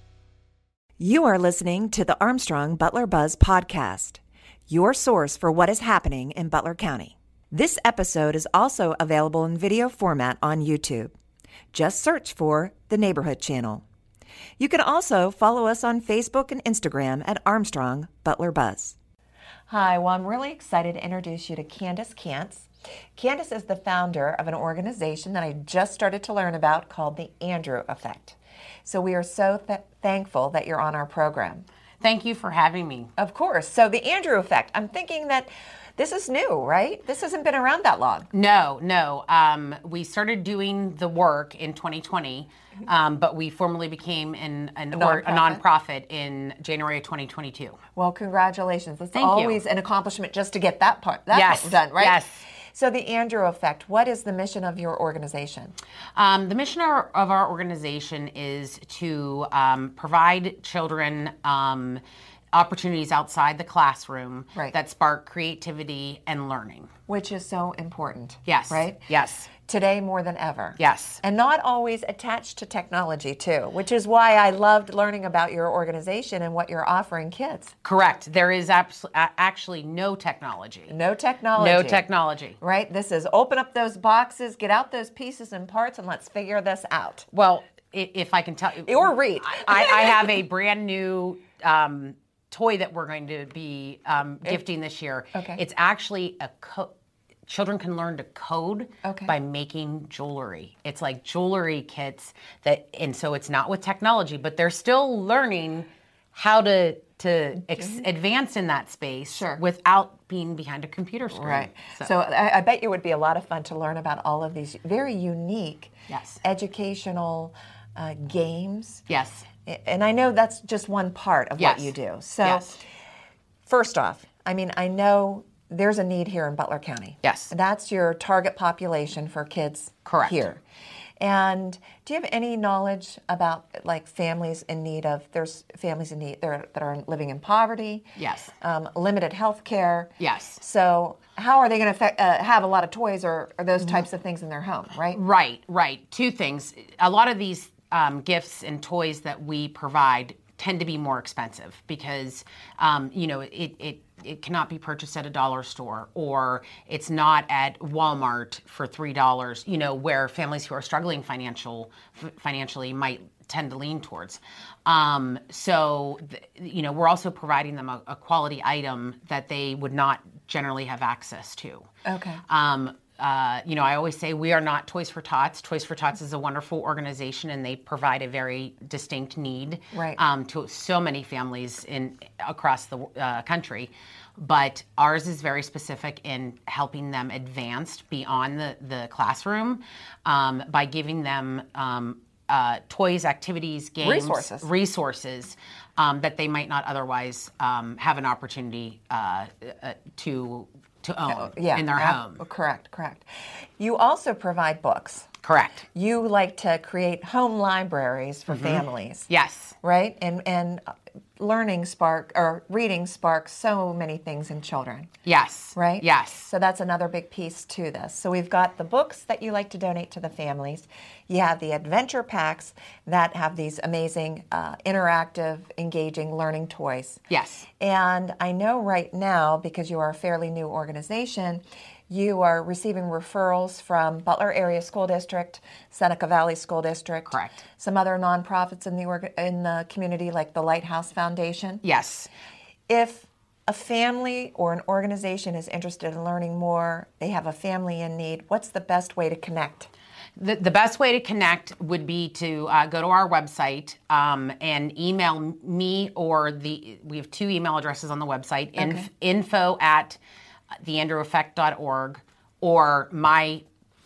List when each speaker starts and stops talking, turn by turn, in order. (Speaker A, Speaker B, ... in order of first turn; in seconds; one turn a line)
Speaker A: 1.0-11.1
Speaker A: 11.7-13.8
Speaker A: 14.6-19.0
Speaker A: 19.7-31.6
Speaker B: 32.0-33.1
Speaker A: 33.2-38.3
Speaker B: 38.3-47.8
Speaker A: 44.9-45.6
Speaker A: 48.0-52.2
Speaker B: 49.1-49.6
Speaker B: 51.3-52.4
Speaker A: 52.7-55.8
Speaker B: 56.1-62.0
Speaker B: 62.5-66.9
Speaker A: 67.1-69.1
Speaker B: 68.5-69.5
Speaker A: 69.7-77.7
Speaker B: 70.8-71.2
Speaker B: 77.8-80.9
Speaker A: 80.9-82.1
Speaker B: 81.6-82.6
Speaker A: 82.6-87.3
Speaker B: 87.3-96.9
Speaker A: 88.8-90.3
Speaker A: 95.3-95.6
Speaker B: 97.5-112.1
Speaker A: 99.0-99.3
Speaker A: 109.3-109.6
Speaker A: 111.3-119.0
Speaker B: 116.1-116.4
Speaker B: 119.1-119.5
Speaker A: 119.7-122.8
Speaker B: 121.6-122.7
Speaker A: 123.7-130.6
Speaker B: 127.2-127.5
Speaker B: 130.1-130.5
Speaker A: 131.2-138.1
Speaker B: 138.2-138.5
Speaker A: 138.6-145.2
Speaker B: 140.2-140.6
Speaker B: 145.1-171.9
Speaker A: 172.0-172.4
Speaker B: 172.5-202.4
Speaker A: 179.9-180.2
Speaker A: 194.0-194.7
Speaker A: 201.3-203.3
Speaker A: 203.8-205.3
Speaker B: 205.4-205.9
Speaker A: 205.9-209.3
Speaker B: 208.5-209.8
Speaker A: 209.8-210.8
Speaker A: 211.4-215.1
Speaker B: 215.2-216.5
Speaker A: 215.8-227.3
Speaker B: 227.3-227.7
Speaker A: 227.8-241.8
Speaker B: 237.3-237.6
Speaker B: 241.8-242.3
Speaker A: 242.9-249.9
Speaker B: 250.4-260.2
Speaker A: 258.8-259.1
Speaker B: 260.8-263.6